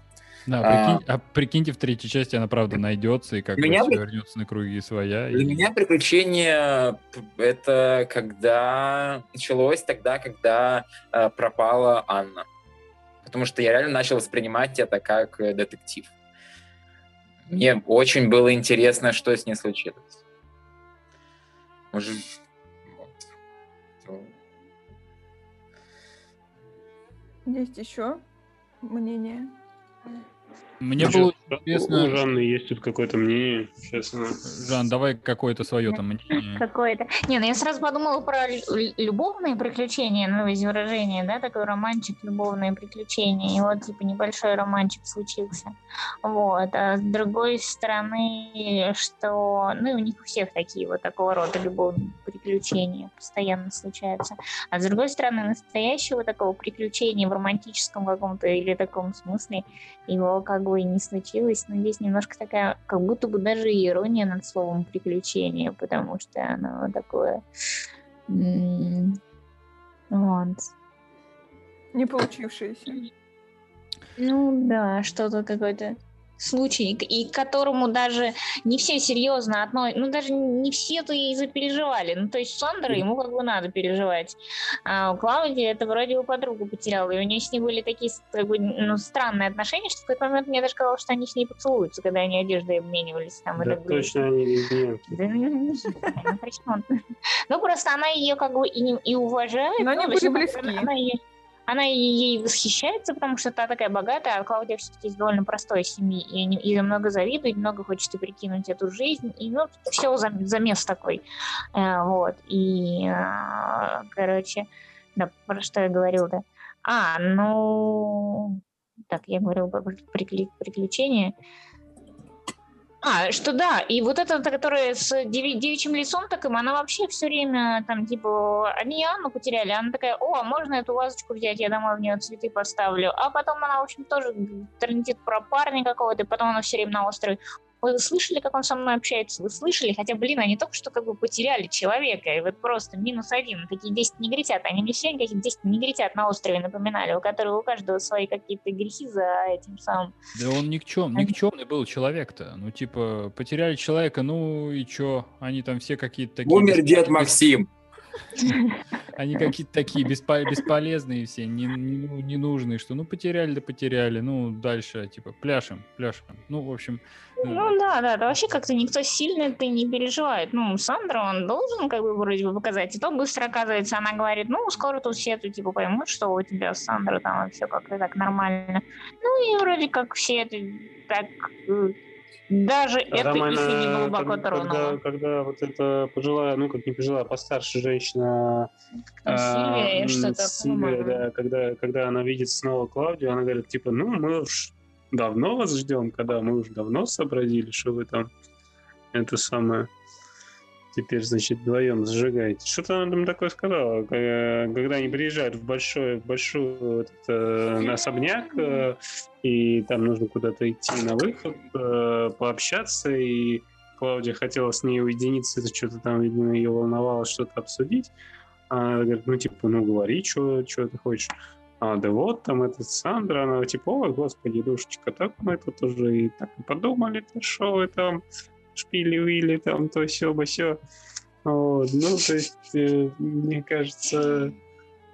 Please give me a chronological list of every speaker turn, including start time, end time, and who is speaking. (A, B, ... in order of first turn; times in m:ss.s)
0:00.4-0:05.7 A
0:00.6-0:01.0 B
0:03.6-0:04.0 B
0:05.3-0:12.4 B
0:13.2-0:16.1 B
0:17.5-0:20.2 B
0:21.9-0:22.2 B
0:24.0-0:24.3 B
0:27.4-0:28.2 C
0:28.8-0:29.5 C
0:30.8-0:32.2 A
0:31.0-0:34.4 D
0:34.5-0:36.6 A
0:35.9-0:45.7 E
0:46.2-1:07.4 E
1:08.3-1:09.2 E
1:10.1-1:10.7 E
1:11.9-1:13.0 C
1:14.2-1:34.2 E
1:33.6-1:35.0 D
1:35.1-1:36.8 E
1:37.5-1:51.2 E
1:39.8-1:40.9 C
1:51.7-2:01.3 E
2:03.0-2:30.1 E
2:30.4-2:37.4 A
2:36.4-2:37.6 B
2:38.4-2:38.8 E
2:39.1-2:47.7 A
2:47.4-3:02.0 E
3:02.5-3:05.0 E
3:03.1-3:08.7 D
3:09.2-3:11.2 E
3:09.2-3:18.3 D
3:19.1-3:19.9 D
3:20.9-3:38.1 D
3:38.7-3:48.2 D
3:48.7-3:50.8 D
3:51.4-3:54.5 D